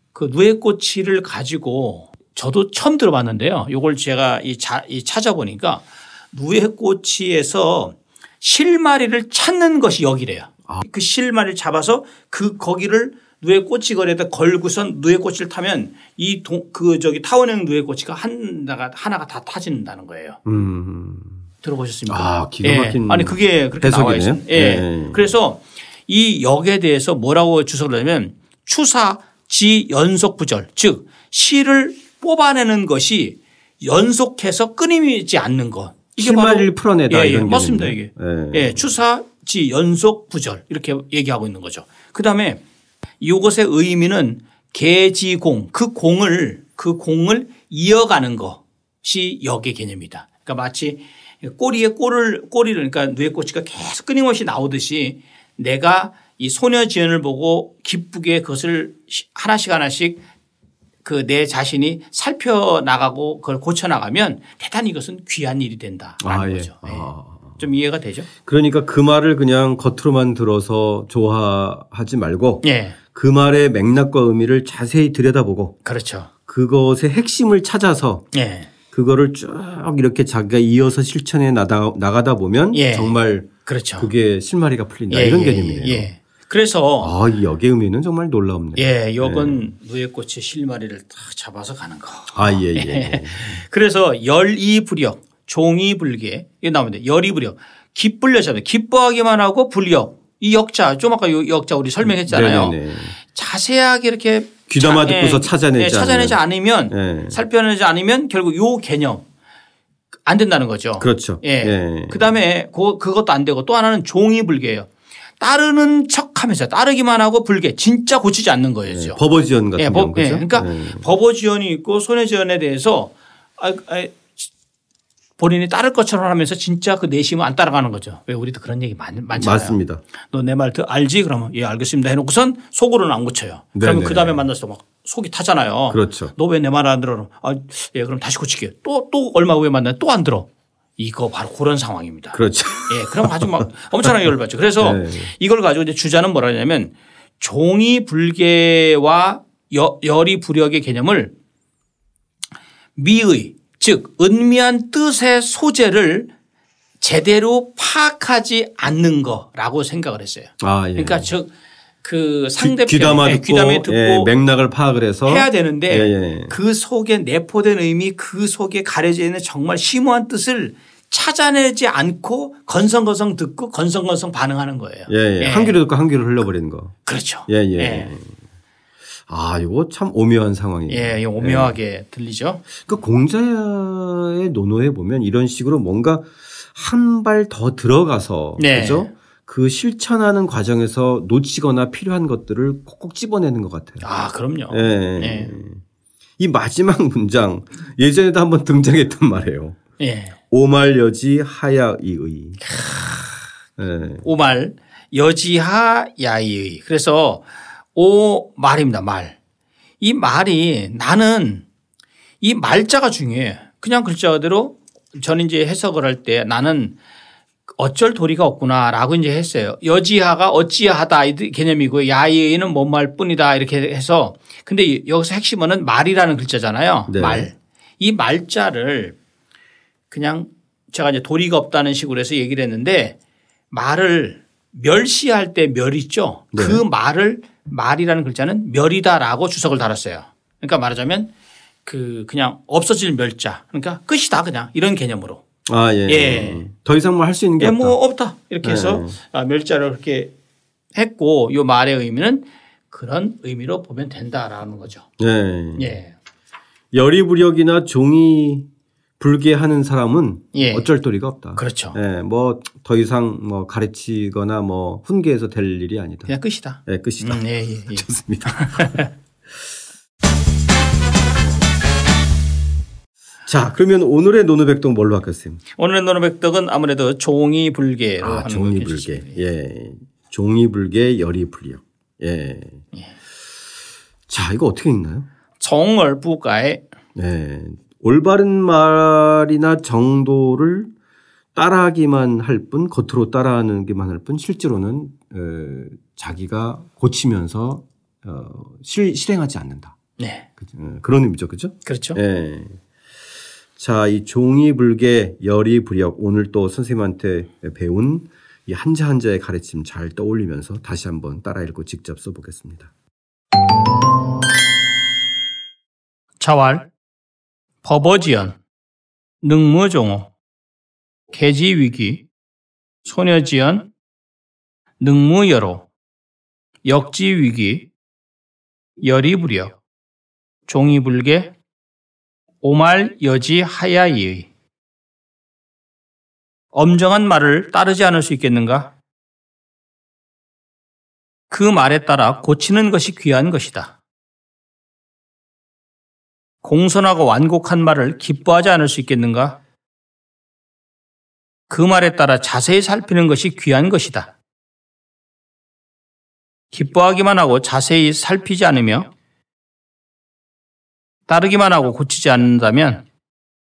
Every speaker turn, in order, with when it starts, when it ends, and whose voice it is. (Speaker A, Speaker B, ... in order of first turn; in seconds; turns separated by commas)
Speaker A: 0.1-20.4, Speaker B: 20.4-21.4, Speaker A: 21.6-42.6, Speaker B: 22.1-25.3, Speaker B: 36.1-39.0, Speaker A: 43.2-60.2, Speaker A: 61.0-68.3, Speaker B: 66.2-67.6, Speaker B: 68.4-75.8, Speaker A: 72.6-73.0, Speaker A: 75.8-76.3, Speaker B: 76.5-78.3, Speaker A: 78.3-78.7, Speaker B: 78.9-86.1, Speaker A: 82.7-83.1, Speaker A: 83.7-84.1, Speaker A: 85.1-87.2, Speaker B: 87.0-89.7, Speaker A: 88.8-109.2, Speaker B: 92.3-93.6, Speaker B: 102.0-103.2, Speaker B: 104.7-107.4, Speaker A: 110.2-114.9, Speaker B: 111.0-112.2, Speaker A: 115.4-119.2, Speaker B: 118.9-121.1, Speaker A: 119.8-124.4, Speaker A: 125.4-129.8, Speaker B: 129.3-130.0, Speaker A: 130.3-151.3, Speaker B: 133.7-134.4, Speaker B: 135.9-136.3, Speaker B: 142.3-144.1, Speaker B: 144.8-145.3, Speaker A: 153.0-156.3, Speaker A: 157.0-161.5, Speaker B: 160.6-161.3, Speaker A: 162.0-164.3, Speaker B: 162.6-166.5, Speaker A: 165.2-175.8, Speaker B: 175.1-176.9, Speaker A: 177.1-178.2, Speaker B: 177.5-178.3, Speaker B: 179.3-181.8, Speaker A: 180.9-182.7, Speaker B: 182.8-194.1, Speaker A: 188.6-189.1, Speaker A: 194.0-195.5, Speaker B: 194.7-195.8, Speaker B: 196.4-199.8, Speaker A: 200.0-200.4, Speaker B: 200.5-202.8, Speaker A: 202.6-203.3, Speaker B: 203.8-204.3, Speaker A: 204.2-209.4, Speaker A: 210.0-211.7, Speaker A: 212.4-216.9, Speaker A: 217.8-229.2, Speaker B: 227.1-227.5, Speaker A: 230.1-233.2, Speaker A: 233.7-241.3, Speaker B: 236.5-236.8, Speaker A: 241.8-245.4, Speaker B: 245.6-248.0, Speaker A: 246.1-246.7, Speaker A: 247.6-250.3, Speaker B: 248.6-249.2, Speaker A: 250.9-255.0, Speaker B: 255.2-256.0, Speaker A: 255.8-256.1, Speaker B: 256.9-258.6, Speaker B: 259.2-266.3, Speaker A: 260.5-260.9, Speaker A: 261.6-262.0, Speaker A: 266.3-269.1, Speaker B: 266.9-269.0, Speaker B: 273.5-275.6, Speaker A: 275.8-279.4, Speaker B: 278.2-282.8, Speaker B: 284.3-285.3, Speaker A: 285.6-286.8, Speaker B: 287.1-290.9, Speaker B: 291.5-300.0, Speaker A: 300.2-300.5, Speaker B: 300.6-302.8, Speaker A: 301.9-302.2, Speaker B: 303.8-312.9, Speaker A: 316.4-316.9, Speaker A: 317.8-318.6, Speaker A: 319.4-320.3, Speaker A: 321.3-322.2, Speaker A: 323.0-323.9, Speaker A: 325.0-325.9, Speaker A: 326.8-327.9, Speaker A: 329.0-329.8, Speaker A: 330.7-331.5, Speaker A: 332.6-334.5, Speaker A: 336.7-338.9, Speaker A: 341.5-343.9, Speaker A: 346.6-349.6, Speaker A: 351.7-354.3, Speaker A: 356.7-359.1, Speaker A: 361.3-363.0